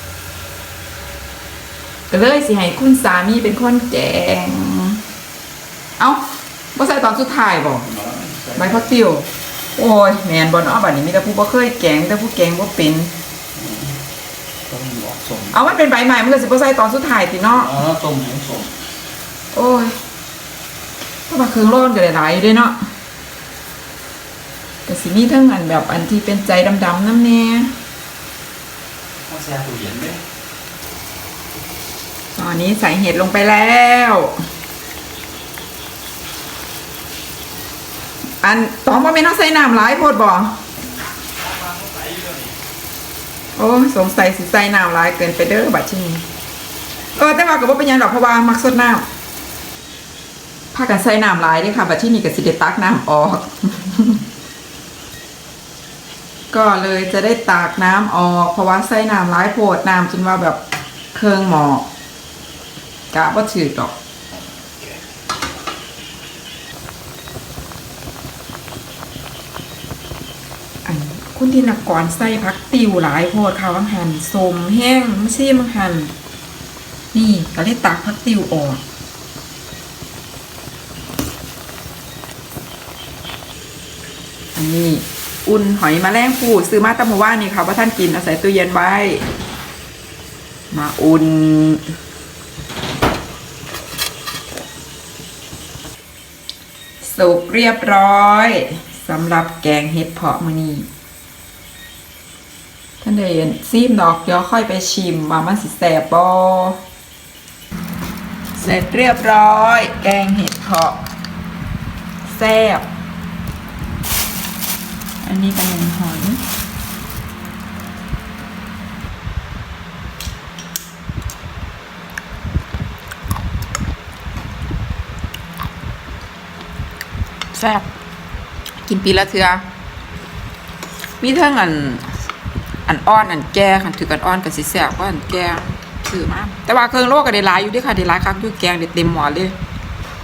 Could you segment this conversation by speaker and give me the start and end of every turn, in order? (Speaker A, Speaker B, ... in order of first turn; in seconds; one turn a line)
Speaker A: 2.1-5.0
Speaker A: 6.7-7.9
Speaker B: 7.8-8.8
Speaker A: 8.6-13.1
Speaker B: 13.6-14.0
Speaker B: 14.7-15.6
Speaker A: 15.5-17.7
Speaker B: 17.5-18.7
Speaker A: 19.5-20.0
Speaker A: 21.3-22.9
Speaker A: 24.9-27.7
Speaker B: 29.2-30.2
Speaker A: 32.3-34.4
Speaker A: 38.4-40.6
Speaker B: 41.6-42.4
Speaker A: 43.5-46.2
Speaker A: 47.1-49.0
Speaker A: 50.7-54.2
Speaker A: 56.5-60.6
Speaker A: 61.1-61.9
Speaker A: 63.1-63.9
Speaker A: 70.8-76.1
Speaker A: 77.1-78.8
Speaker A: 84.5-89.2
Speaker A: 90.7-91.8
Speaker A: 97.0-100.9
Speaker A: 103.0-106.8
Speaker A: 108.5-111.0
Speaker A: 112.2-112.8
Speaker A: 115.2-116.4
Speaker A: 127.5-127.9
Speaker A: 128.8-129.7
Speaker A: 131.2-132.1
Speaker A: 132.8-139.6